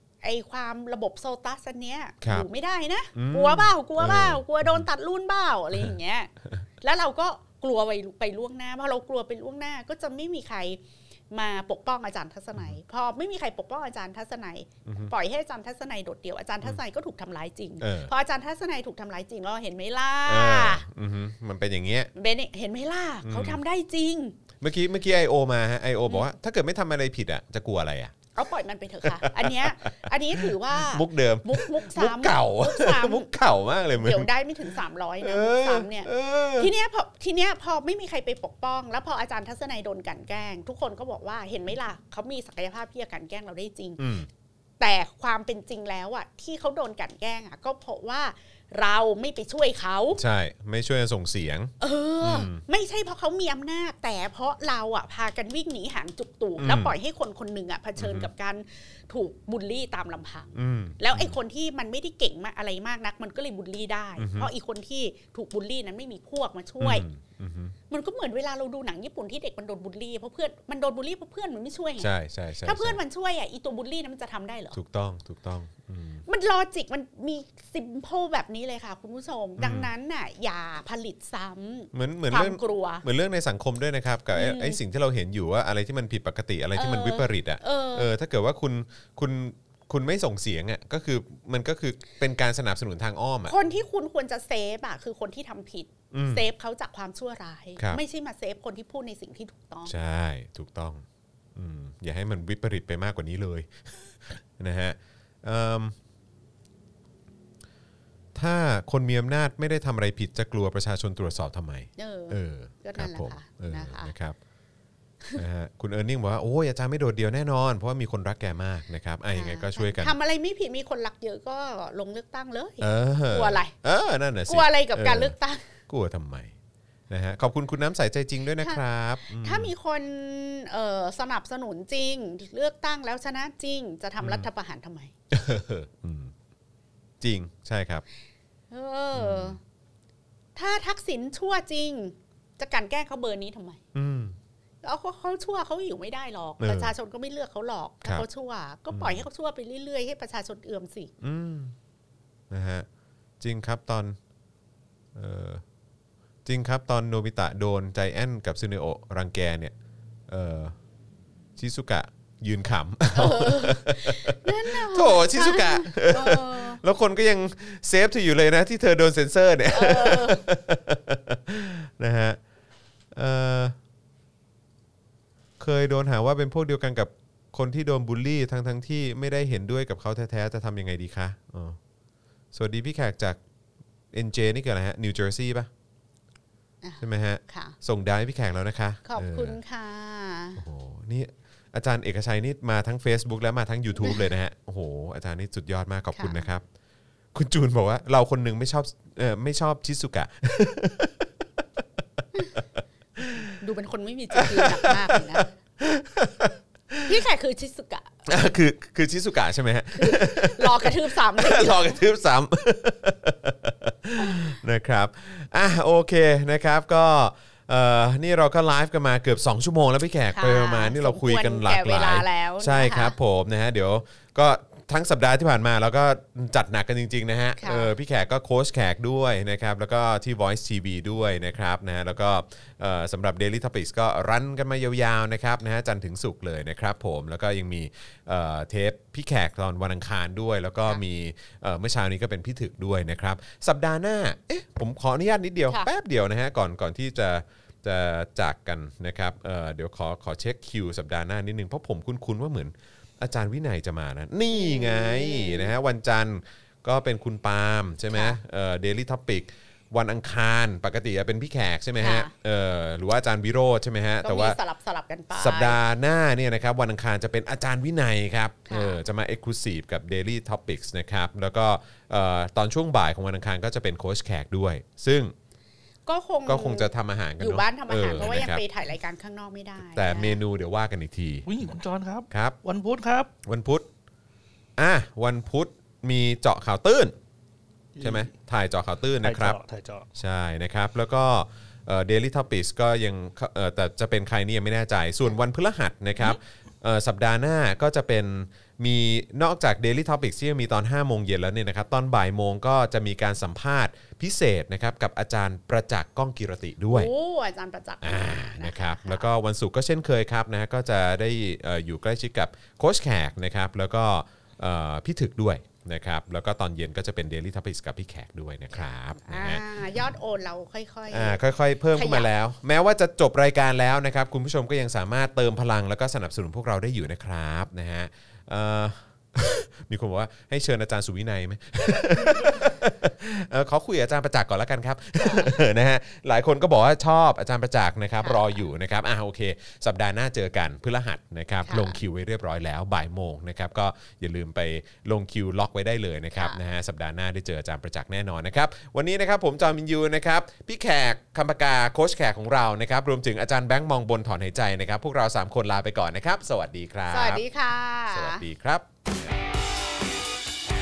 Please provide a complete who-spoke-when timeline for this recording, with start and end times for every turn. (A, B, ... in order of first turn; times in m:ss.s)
0:00.2-0:20.8 A
0:02.2-0:02.5 B
0:03.1-0:04.9 B
0:14.8-0:15.1 B
0:17.8-0:18.1 B
0:20.2-0:22.1 B
0:22.1-0:24.4 A
0:23.2-0:23.6 B
0:24.6-0:28.1 B
0:28.3-0:33.3 A
0:29.0-0:34.3 B
0:34.0-0:44.2 A
0:35.2-0:36.7 B
0:44.0-0:44.3 B
0:44.8-0:50.2 A
0:50.2-0:52.6 B
0:51.8-1:07.0 A
0:56.6-0:56.9 B
0:58.0-0:58.3 B
1:00.5-1:01.4 B
1:04.2-1:04.5 B
1:06.8-1:07.8 B
1:07.9-1:12.1 A
1:12.0-1:13.0 B
1:12.6-1:14.8 A
1:14.7-1:16.2 B
1:16.3-1:23.0 A
1:19.6-1:19.9 B
1:21.9-1:33.5 B
1:24.3-1:24.8 A
1:26.8-1:28.1 A
1:33.4-1:40.0 A
1:36.1-1:36.4 B
1:39.9-1:46.0 B
1:48.3-1:54.4 B
1:52.0-1:54.1 A
1:55.4-2:00.2 B
1:59.3-2:03.7 A
2:02.8-2:05.3 B
2:04.5-2:05.7 A
2:05.9-2:06.5 B
2:07.1-2:09.7 B
2:08.6-2:15.1 A
2:14.2-2:14.5 B
2:15.3-2:16.3 B
2:17.2-2:18.0 B
2:18.7-2:19.6 A
2:19.1-2:19.6 B
2:20.6-2:23.8 A
2:23.9-2:24.4 B
2:24.8-2:31.1 A
2:26.6-2:26.9 B
2:28.9-2:29.2 B
2:31.2-2:31.7 B
2:32.5-2:32.9 B
2:33.4-2:34.2 B
2:35.1-2:35.6 B
2:36.4-2:39.7 B
2:40.3-2:40.8 B
2:41.6-2:52.4 B
2:43.1-2:46.8 A
2:49.7-2:50.4 A
2:53.1-2:53.8 B
2:55.6-3:01.8 B
3:02.5-3:03.4 B
3:04.1-3:05.7 B
3:06.8-3:07.7 A
3:07.0-3:09.6 B
3:09.0-3:10.6 A
3:10.6-3:16.6 B
3:16.1-3:16.5 A
3:17.3-3:21.2 B
3:23.2-3:23.6 B
3:23.6-3:25.5 A
3:24.3-3:27.1 B
3:27.0-3:28.1 A
3:28.2-4:24.6 B
3:29.9-3:32.0 A
3:34.2-3:34.5 A
3:40.3-3:43.2 A
3:47.6-3:47.9 A
4:14.5-4:15.7 A
4:18.1-4:18.4 A
4:22.0-4:22.3 A
4:24.2-4:25.8 A
4:25.3-4:35.3 B
4:28.7-4:29.0 A
4:36.0-4:40.4 A
4:36.4-4:38.6 B
4:39.9-4:41.7 B
4:41.4-4:43.3 C
4:42.3-4:42.6 B
4:43.4-4:43.9 B
4:44.8-4:47.2 B
4:48.0-4:48.3 C
4:48.0-4:49.6 B
4:49.2-4:50.1 C
4:50.1-5:07.1 B
5:06.9-5:09.2 A
5:08.0-5:19.6 B
5:19.2-5:21.4 A
5:21.1-5:57.4 B
5:21.9-5:22.3 A
5:35.2-5:35.5 A
5:38.2-5:38.5 A
5:41.6-5:42.0 A
5:57.1-5:58.4 A
5:58.1-5:59.3 B